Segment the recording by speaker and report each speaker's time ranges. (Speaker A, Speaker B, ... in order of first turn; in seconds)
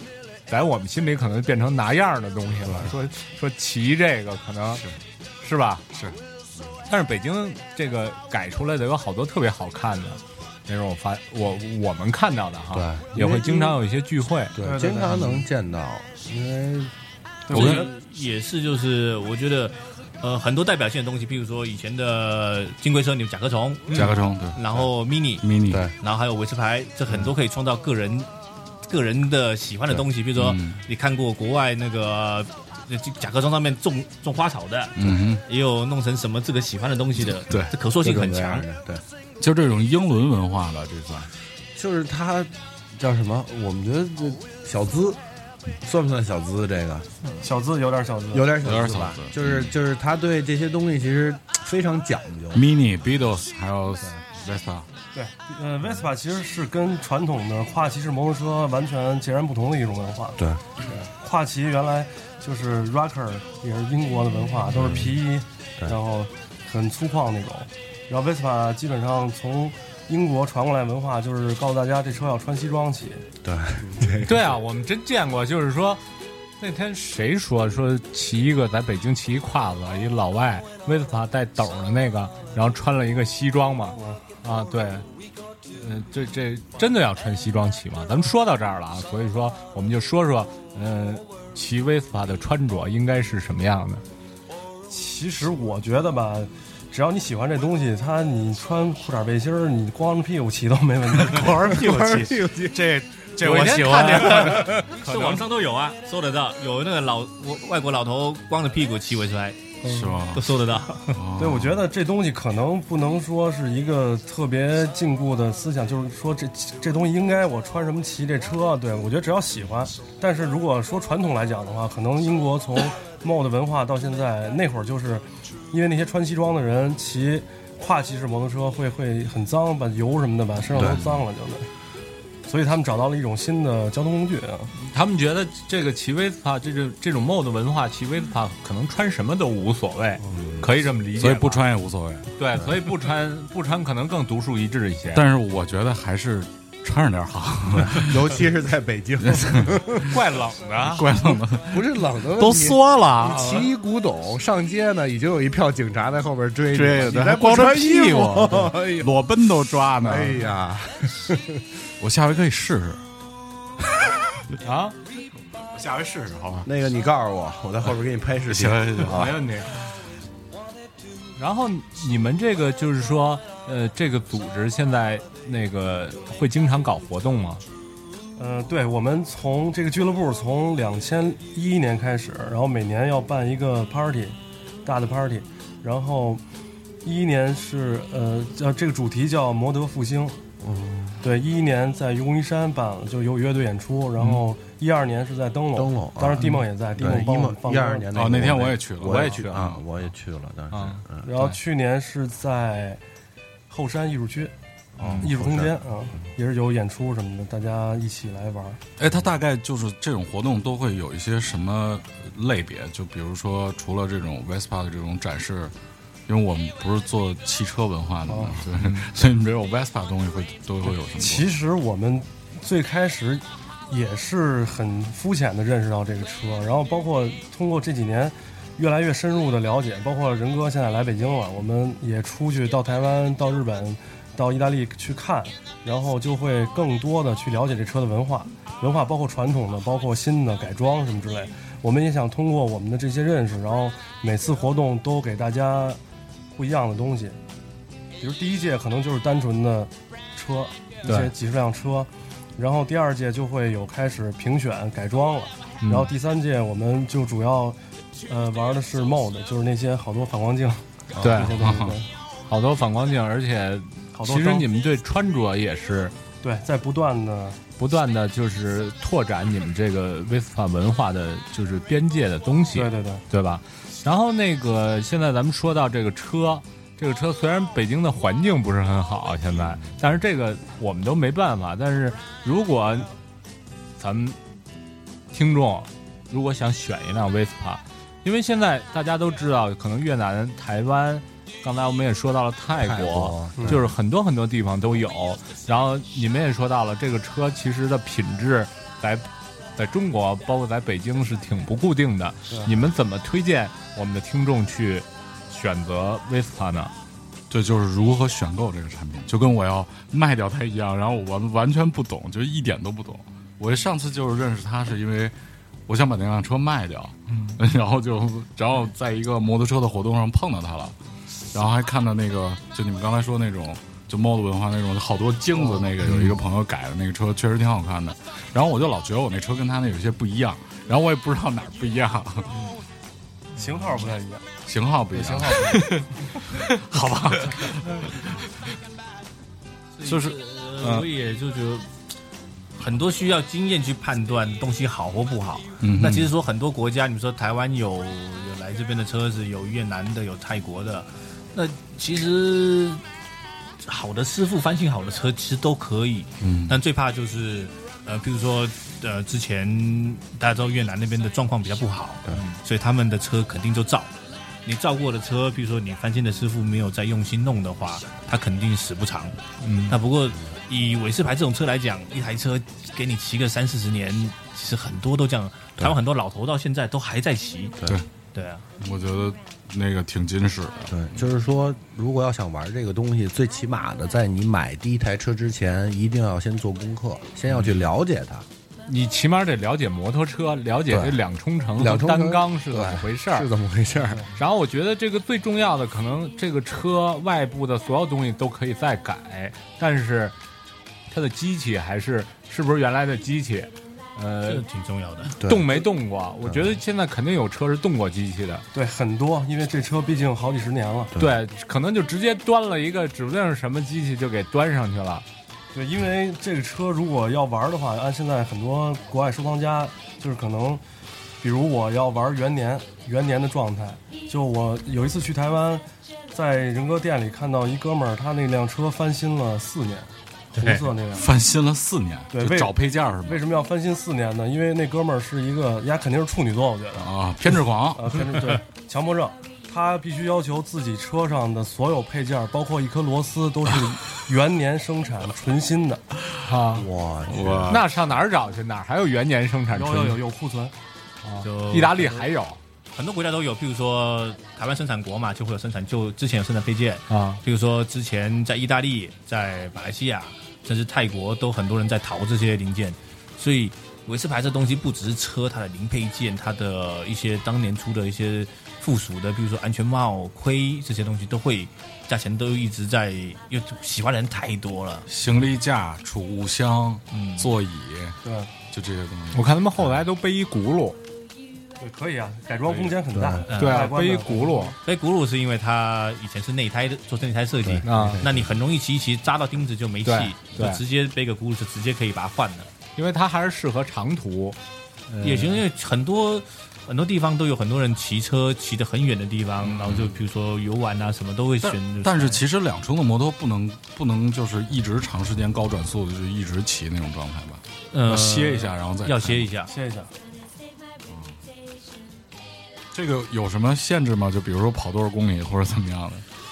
Speaker A: 0.5-4.8, 5.4-5.8, 6.9-14.5, 74.2-76.0, 76.6-85.0, 85.7-94.0, 103.4-105.4, 134.8-141.6, 142.4-145.2, 150.1-151.1, 153.1-153.5, 164.6-164.9, 169.0-169.7, 171.4-177.6, 199.0-199.7, 200.7-201.6, 218.8-219.1, 251.0-251.3, 255.8-256.1, 261.2-261.5, 262.5-266.1, 267.8-283.1, 284.0-284.4, 285.3-306.9, 335.7-336.0, 369.6-370.0, 388.9-393.5, 394.3-400.3, 401.1-404.6, 405.4-408.6, 411.2-415.2, 446.4-446.8, 447.7-450.2, 451.2-452.6, 457.1-457.4, 479.3-481.0, 483.5-484.7, 487.8-488.2, 490.0-490.8, 492.9-494.6, 495.1-495.6
Speaker B: 12.7-13.7, 14.5-16.9, 38.0-39.0, 41.7-45.2, 45.8-47.1, 48.3-52.6, 60.4-61.0, 64.7-65.2, 73.4-74.4, 101.6-102.8, 130.7-131.2, 140.2-140.7, 147.8-150.1, 151.6-159.1, 160.0-161.6, 166.6-169.3, 190.6-191.2, 195.7-201.3, 205.0-205.8, 292.8-293.9, 380.9-388.4, 390.9-391.2, 391.8-394.2, 405.4-405.8, 406.4-406.8, 446.7-447.7, 483.1-483.4, 487.6-488.6
Speaker C: 14.6-15.1, 17.5-17.9, 47.4-48.6, 55.1-60.4, 61.0-73.2, 83.9-84.2, 94.9-101.8, 109.8-110.2, 111.4-131.7, 132.4-134.7, 178.4-186.4, 187.0-190.4, 191.2-198.1, 201.2-203.0, 203.7-204.5, 205.2-208.8, 218.3-218.6, 221.1-246.0, 246.5-247.4, 248.2-262.1, 264.1-264.6, 266.4-267.6, 272.7-273.2, 333.6-334.4, 335.1-335.9, 408.7-411.1, 415.7-420.8, 421.4-431.3, 432.3-437.1, 437.9-446.0, 449.7-450.7, 478.2-478.5, 481.8-484.7, 509.7-510.1
Speaker D: 17.5-25.4, 26.0-28.3, 28.8-38.6, 103.9-109.8, 110.3-111.2, 340.0-341.9, 342.8-353.0, 353.8-364.1, 364.6-377.8, 378.3-378.6, 404.4-405.3, 430.6-430.9, 451.4-452.2, 452.9-475.0, 477.1-477.5, 483.5-483.9, 484.8-492.7, 495.2-502.4, 507.9-509.7
Speaker E: 17.5-17.8, 23.9-24.6, 25.4-25.8, 30.3-30.8, 35.0-35.4, 39.4-41.3, 48.6-49.7, 52.5-54.9, 101.1-104.7, 109.8-110.4, 111.1-111.8, 141.2-142.3, 145.1-148.2, 149.3-149.7, 150.8-151.9, 152.4-153.4, 156.7-160.4, 162.0-163.0, 165.7-166.7, 168.5-169.9, 198.1-199.8, 209.0-215.7, 216.3-221.5, 261.3-262.0, 307.5-315.3, 315.9-320.9, 321.5-332.6, 334.6-338.4, 340.0-341.1, 345.8-346.3, 356.4-356.8, 378.8-380.9, 431.1-433.4, 436.9-438.4, 447.3-447.9, 475.1-478.1, 478.7-479.4, 499.6-500.1, 501.6-509.5, 511.1-511.4, 512.9-516.2